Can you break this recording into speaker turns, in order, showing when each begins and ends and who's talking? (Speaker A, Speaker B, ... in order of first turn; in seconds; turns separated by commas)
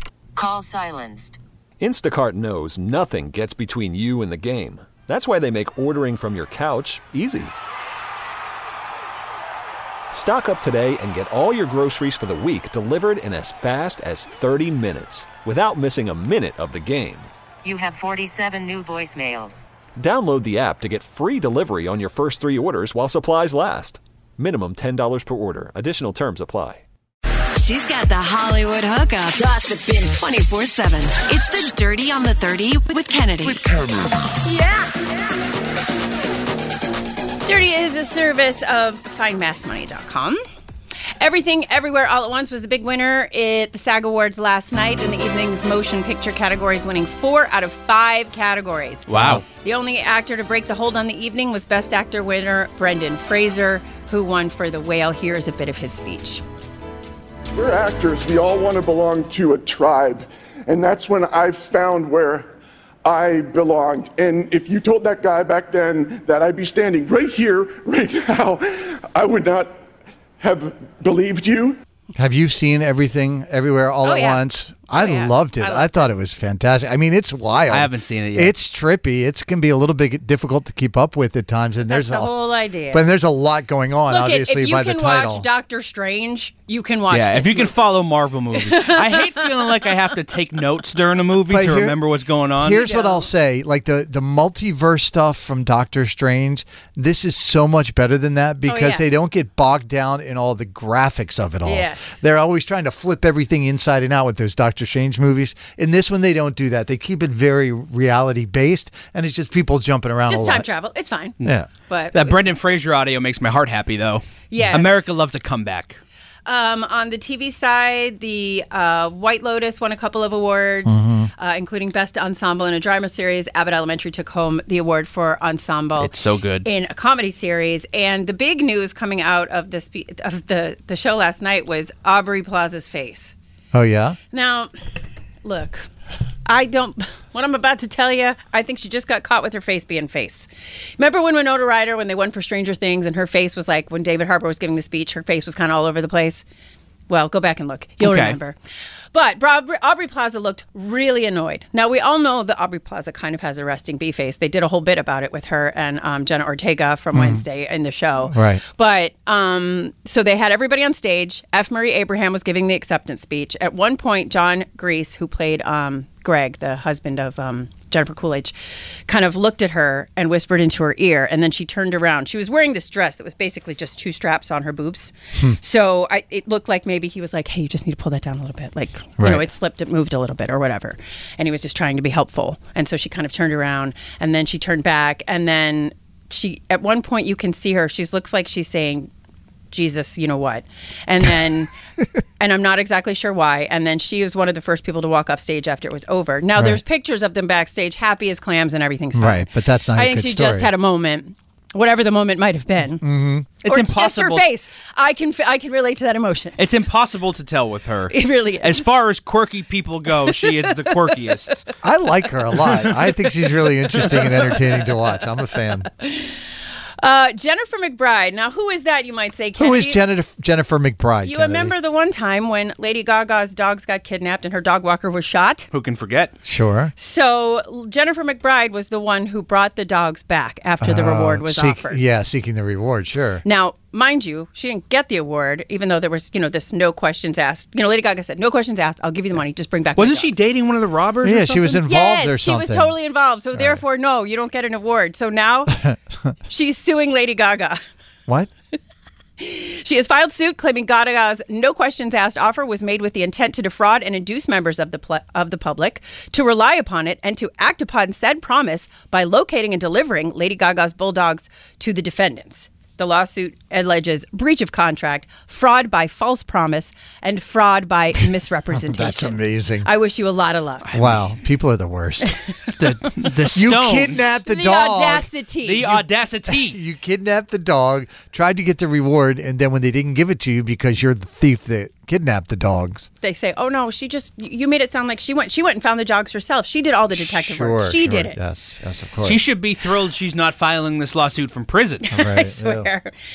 Speaker A: 0.4-1.4, Speaker B: 1.8-7.5, Speaker B: 10.1-17.3, Speaker A: 17.6-19.6, Speaker B: 20.0-26.8, Speaker C: 27.6-29.5, Speaker C: 30.1-33.7, Speaker D: 34.4-35.3, Speaker D: 37.4-40.4, Speaker D: 41.2-56.4, Speaker E: 49.1-49.4, Speaker F: 49.1-49.4, Speaker G: 57.5-62.5, Speaker G: 63.0-69.8, Speaker G: 70.4-71.8, Speaker F: 72.2-82.3, Speaker D: 74.0-75.9, Speaker E: 77.7-78.5, Speaker D: 81.9-83.0, Speaker F: 82.9-85.5, Speaker D: 84.1-87.8, Speaker E: 87.1-92.8, Speaker D: 88.7-89.2, Speaker F: 91.5-92.0, Speaker F: 92.6-110.7, Speaker D: 92.8-93.3, Speaker D: 98.7-99.2, Speaker D: 101.6-102.2, Speaker D: 110.3-112.5, Speaker F: 111.4-111.7, Speaker E: 112.1-116.0, Speaker D: 114.5-115.0, Speaker D: 116.5-126.1, Speaker F: 120.8-121.3, Speaker E: 126.0-126.7, Speaker D: 126.6-133.3, Speaker F: 133.7-134.2, Speaker D: 134.3-134.7, Speaker D: 135.4-135.8, Speaker D: 136.4-146.4, Speaker D: 147.1-148.6, Speaker E: 148.0-148.4, Speaker D: 149.1-189.1, Speaker F: 157.1-157.4, Speaker F: 158.3-158.6, Speaker F: 179.2-179.5, Speaker D: 189.7-191.7, Speaker D: 192.4-203.1, Speaker F: 196.6-196.8, Speaker F: 199.1-200.7, Speaker F: 203.0-203.5, Speaker E: 203.6-204.4, Speaker D: 203.7-206.6, Speaker E: 206.6-211.7, Speaker D: 208.1-208.9, Speaker D: 210.3-210.5, Speaker F: 211.8-215.9, Speaker D: 216.0-216.4, Speaker D: 217.0-220.0, Speaker F: 219.6-221.7, Speaker D: 221.2-225.7, Speaker E: 225.7-226.3, Speaker F: 226.4-226.9, Speaker D: 227.0-232.0, Speaker F: 230.8-233.4, Speaker D: 233.4-240.4, Speaker E: 240.0-241.8, Speaker F: 241.2-243.8, Speaker D: 241.8-245.8, Speaker D: 246.5-247.8, Speaker D: 249.4-270.9, Speaker F: 268.7-269.9, Speaker E: 270.9-271.2, Speaker F: 270.9-272.5, Speaker E: 272.8-274.3, Speaker F: 273.5-275.3, Speaker D: 274.4-276.0, Speaker E: 275.6-276.8, Speaker F: 276.5-283.1, Speaker D: 283.2-288.4, Speaker F: 287.1-289.4, Speaker E: 289.2-292.1, Speaker D: 292.1-293.1, Speaker F: 292.1-292.9